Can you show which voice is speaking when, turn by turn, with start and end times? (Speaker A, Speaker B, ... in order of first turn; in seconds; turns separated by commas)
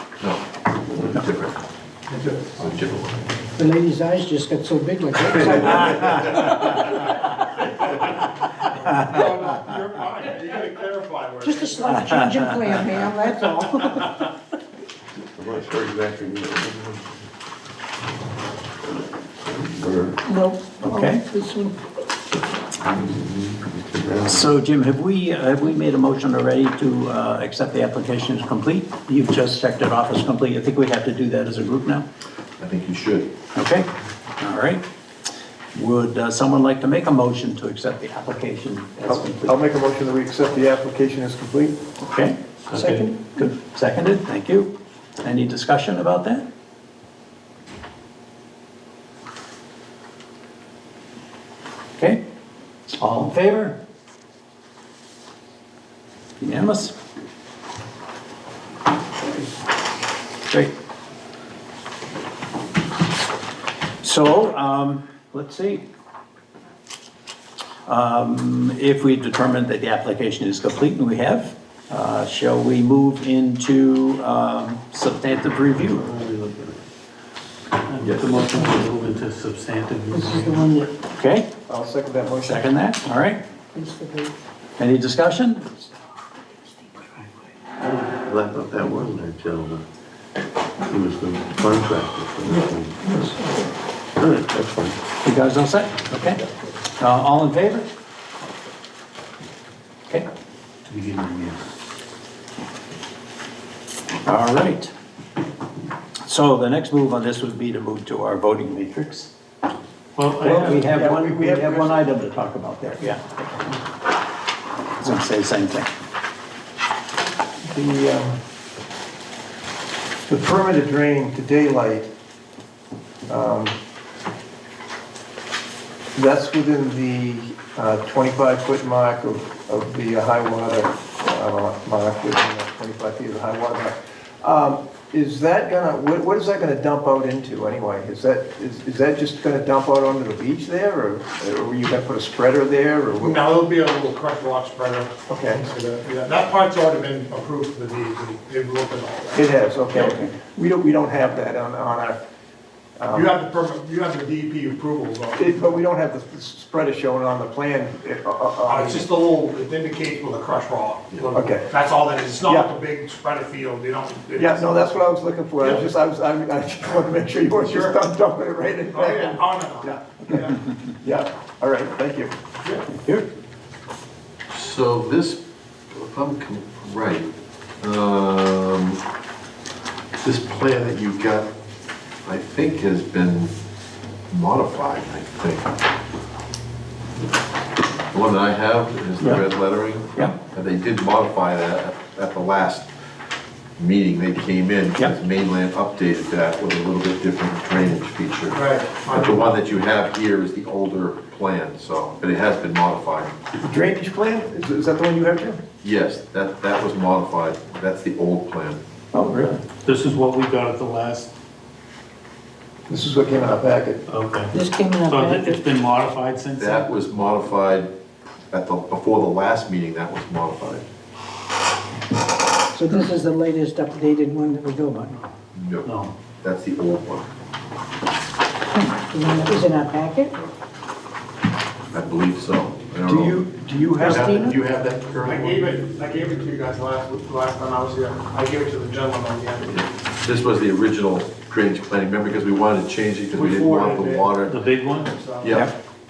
Speaker A: 1.0-1.6, Speaker B: 2.1-2.4, Speaker A: 2.6-3.2, Speaker C: 3.6-6.1, Speaker B: 6.0-6.8, Speaker B: 8.7-12.1, Speaker C: 11.4-14.1, Speaker D: 11.8-13.0, Speaker E: 15.4-17.0, Speaker E: 19.5-20.2, Speaker C: 20.3-21.8, Speaker D: 20.8-21.2, Speaker E: 22.9-24.5, Speaker D: 24.3-32.0, Speaker A: 32.6-33.3, Speaker D: 33.5-33.9, Speaker D: 34.4-34.8, Speaker D: 35.7-39.6, Speaker F: 39.1-41.8, Speaker D: 42.0-46.5, Speaker G: 42.7-43.1, Speaker C: 42.7-43.4, Speaker D: 53.0-53.8, Speaker D: 56.4-57.0, Speaker D: 64.0-65.9, Speaker D: 67.9-76.1, Speaker E: 76.0-76.8, Speaker G: 77.9-80.5, Speaker A: 78.0-78.6, Speaker C: 80.1-80.9, Speaker D: 81.2-81.5, Speaker F: 81.7-82.7, Speaker D: 82.4-83.4, Speaker C: 83.8-84.3, Speaker D: 84.8-85.8, Speaker E: 87.8-89.8, Speaker E: 90.9-93.1, Speaker C: 93.1-93.6, Speaker E: 94.2-95.0, Speaker D: 95.2-96.5, Speaker D: 97.0-97.9, Speaker G: 100.9-101.6, Speaker D: 104.2-104.9, Speaker D: 106.3-109.3, Speaker G: 110.2-110.8, Speaker D: 110.4-113.7, Speaker F: 110.8-112.2, Speaker D: 115.0-115.9, Speaker F: 117.6-118.4, Speaker F: 120.3-122.1, Speaker F: 123.3-123.8, Speaker F: 126.2-143.4, Speaker B: 143.2-149.5, Speaker F: 145.3-145.6, Speaker F: 149.3-152.2, Speaker F: 153.0-153.3, Speaker B: 153.1-155.8, Speaker F: 155.4-159.1, Speaker B: 158.7-164.8, Speaker F: 161.3-161.7, Speaker F: 162.4-162.7, Speaker F: 164.4-172.3, Speaker B: 165.6-165.9, Speaker B: 167.6-168.0, Speaker B: 168.9-170.6, Speaker D: 172.9-173.3, Speaker A: 174.5-175.4, Speaker A: 175.9-179.0, Speaker A: 180.2-181.5, Speaker A: 182.2-183.6, Speaker A: 184.3-185.7, Speaker A: 188.1-192.9, Speaker A: 193.8-203.3, Speaker B: 198.5-199.6, Speaker F: 203.6-205.6, Speaker A: 205.8-208.8, Speaker D: 209.1-209.6, Speaker G: 209.8-211.3, Speaker F: 212.9-214.0, Speaker G: 214.1-216.9, Speaker C: 214.5-215.7, Speaker A: 216.6-217.9, Speaker A: 218.5-220.8, Speaker C: 222.7-225.3, Speaker A: 225.5-227.3, Speaker G: 225.8-226.2, Speaker C: 228.8-230.3, Speaker A: 229.2-229.7, Speaker A: 231.9-233.4, Speaker F: 233.1-234.5, Speaker A: 234.0-235.7, Speaker C: 234.0-234.6, Speaker B: 235.2-239.8, Speaker A: 239.7-244.6, Speaker B: 243.3-244.4, Speaker G: 244.4-245.1, Speaker B: 245.0-245.7, Speaker A: 245.4-245.7, Speaker D: 245.5-245.7